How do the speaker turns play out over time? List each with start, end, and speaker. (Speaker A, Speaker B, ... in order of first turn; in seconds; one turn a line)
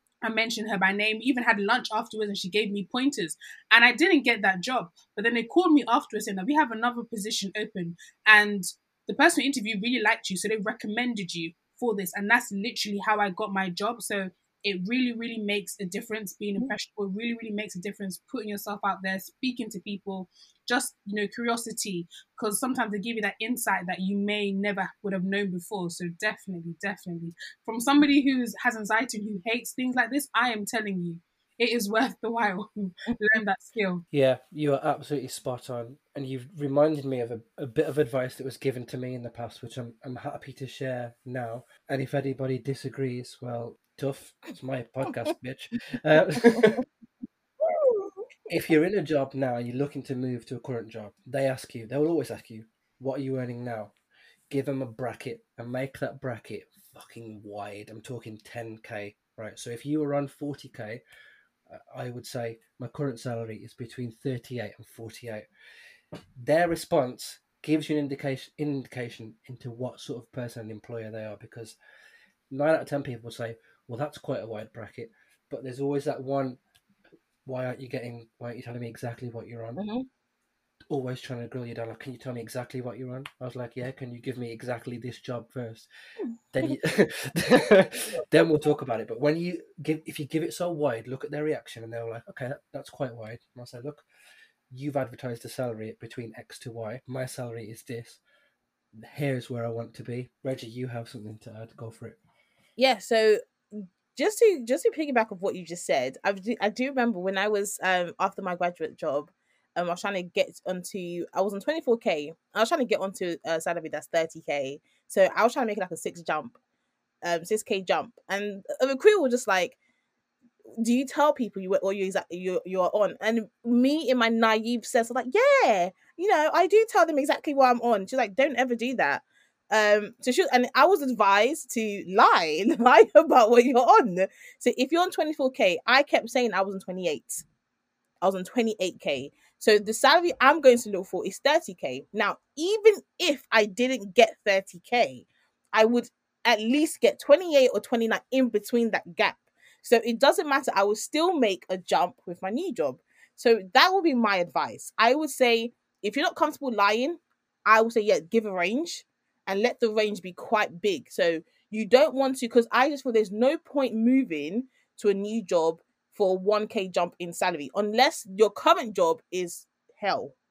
Speaker A: 0.2-34.0
Speaker B: 34.1-46.8
Speaker C: 46.4-46.8
Speaker C: 47.6-48.2
Speaker B: 48.5-53.9
Speaker B: 54.5-61.0
Speaker B: 61.7-65.5
Speaker B: 66.4-71.8
Speaker B: 72.5-76.6
Speaker B: 77.4-79.8
Speaker C: 79.8-80.0
Speaker B: 80.9-85.9
Speaker C: 86.2-86.7
Speaker B: 86.5-94.0
Speaker B: 94.7-98.2
Speaker B: 99.0-102.2
Speaker C: 102.8-116.5
Speaker C: 117.2-119.8
Speaker C: 120.8-137.4
Speaker C: 138.2-170.3